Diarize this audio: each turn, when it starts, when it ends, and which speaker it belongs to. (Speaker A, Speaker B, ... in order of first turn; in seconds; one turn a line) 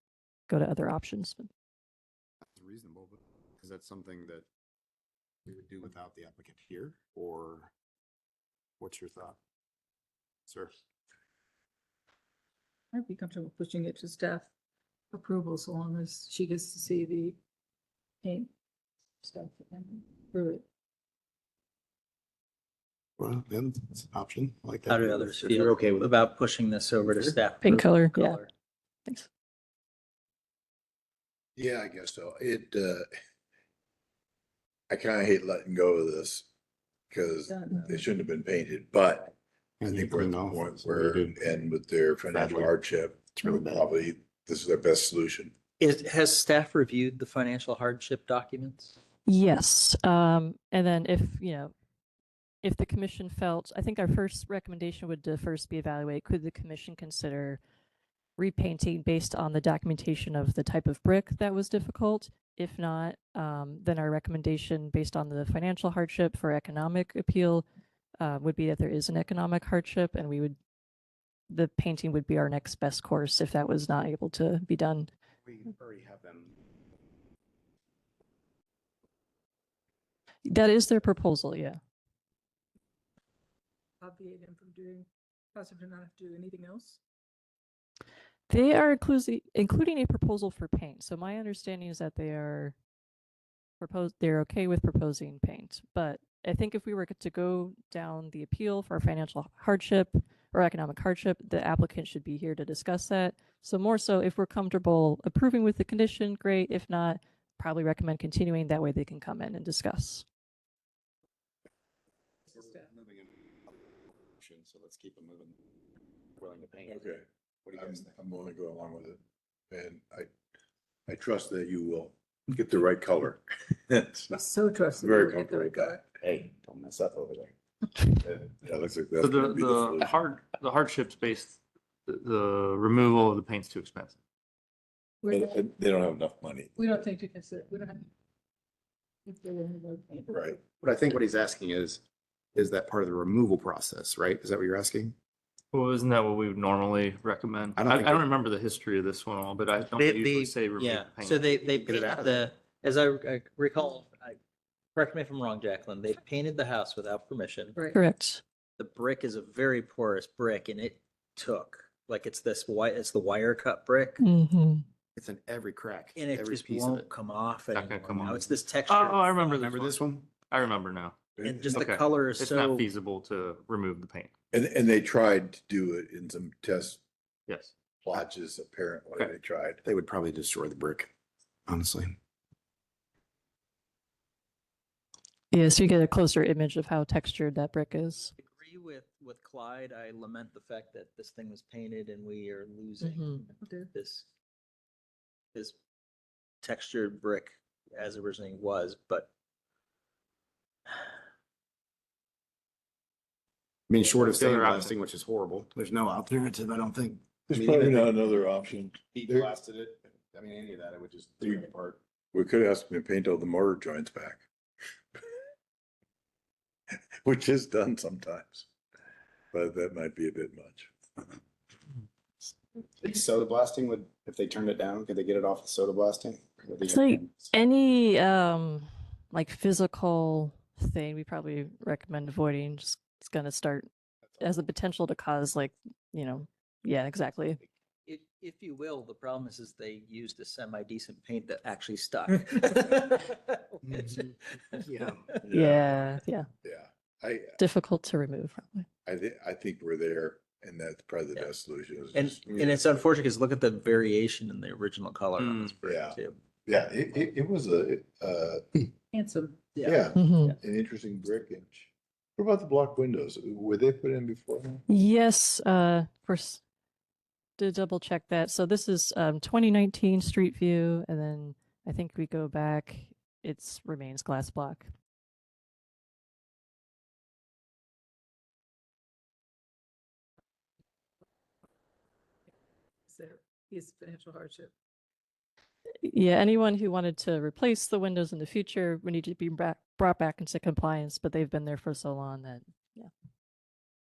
Speaker A: 0.5-1.5
Speaker B: 2.5-4.5
Speaker B: 5.5-7.7
Speaker B: 8.8-9.4
Speaker B: 10.5-10.8
Speaker C: 12.9-14.5
Speaker C: 15.1-17.4
Speaker C: 18.2-18.5
Speaker C: 19.2-20.6
Speaker B: 23.2-26.1
Speaker D: 24.9-28.5
Speaker B: 27.1-27.4
Speaker A: 27.6-28.4
Speaker E: 31.6-33.1
Speaker E: 34.9-36.5
Speaker E: 37.1-39.3
Speaker C: 37.5-38.0
Speaker B: 39.8-41.4
Speaker E: 39.9-45.5
Speaker B: 42.3-42.8
Speaker B: 43.3-43.9
Speaker D: 45.8-49.0
Speaker A: 49.3-51.7
Speaker A: 52.6-57.6
Speaker A: 58.4-67.7
Speaker A: 68.2-70.6
Speaker A: 71.5-75.1
Speaker B: 75.4-76.5
Speaker A: 80.5-81.8
Speaker C: 84.0-87.0
Speaker A: 88.5-92.7
Speaker A: 93.8-110.2
Speaker B: 112.5-113.7
Speaker B: 114.4-115.6
Speaker B: 116.4-117.0
Speaker E: 116.9-117.2
Speaker B: 117.7-118.1
Speaker E: 117.8-119.2
Speaker E: 119.7-120.3
Speaker E: 121.1-124.3
Speaker C: 124.3-126.0
Speaker E: 125.0-126.0
Speaker B: 126.2-127.5
Speaker E: 128.6-130.2
Speaker F: 129.2-134.2
Speaker C: 135.2-135.6
Speaker E: 135.3-136.7
Speaker C: 136.8-138.1
Speaker C: 139.3-140.3
Speaker E: 140.3-140.6
Speaker B: 140.8-142.0
Speaker B: 142.6-145.2
Speaker F: 145.7-151.7
Speaker B: 147.8-148.2
Speaker D: 150.0-154.4
Speaker B: 151.7-152.4
Speaker D: 154.9-157.8
Speaker C: 157.8-158.0
Speaker A: 157.9-158.4
Speaker D: 158.8-164.2
Speaker A: 164.2-164.8
Speaker B: 165.2-167.1
Speaker D: 166.2-169.6
Speaker F: 167.7-171.2
Speaker B: 169.6-170.3
Speaker E: 171.4-171.9
Speaker D: 171.4-172.9
Speaker F: 171.7-174.3
Speaker E: 174.5-177.0
Speaker F: 177.5-177.7
Speaker E: 178.0-179.8
Speaker B: 179.8-181.1
Speaker B: 181.7-182.2
Speaker A: 185.5-188.3
Speaker D: 188.4-194.3
Speaker A: 193.0-193.4
Speaker C: 193.6-193.9
Speaker D: 196.6-199.3
Speaker B: 203.9-208.2
Speaker F: 204.2-204.9
Speaker E: 207.5-209.5
Speaker B: 209.1-212.0
Speaker E: 212.3-214.4
Speaker E: 217.2-218.7
Speaker E: 219.5-221.4
Speaker B: 223.0-227.5
Speaker A: 226.9-233.9
Speaker A: 234.4-237.6
Speaker D: 238.1-244.8
Speaker B: 243.9-245.3
Speaker E: 245.4-247.6
Speaker A: 245.5-246.5
Speaker A: 247.6-248.9
Speaker E: 249.1-252.8
Speaker D: 252.2-256.4
Speaker F: 255.4-255.7
Speaker E: 255.9-258.9
Speaker C: 259.1-259.8
Speaker D: 259.7-260.2
Speaker E: 259.8-264.8
Speaker A: 260.2-260.5
Speaker A: 264.9-266.6
Speaker A: 267.6-274.9
Speaker C: 283.1-284.7
Speaker A: 286.0-293.1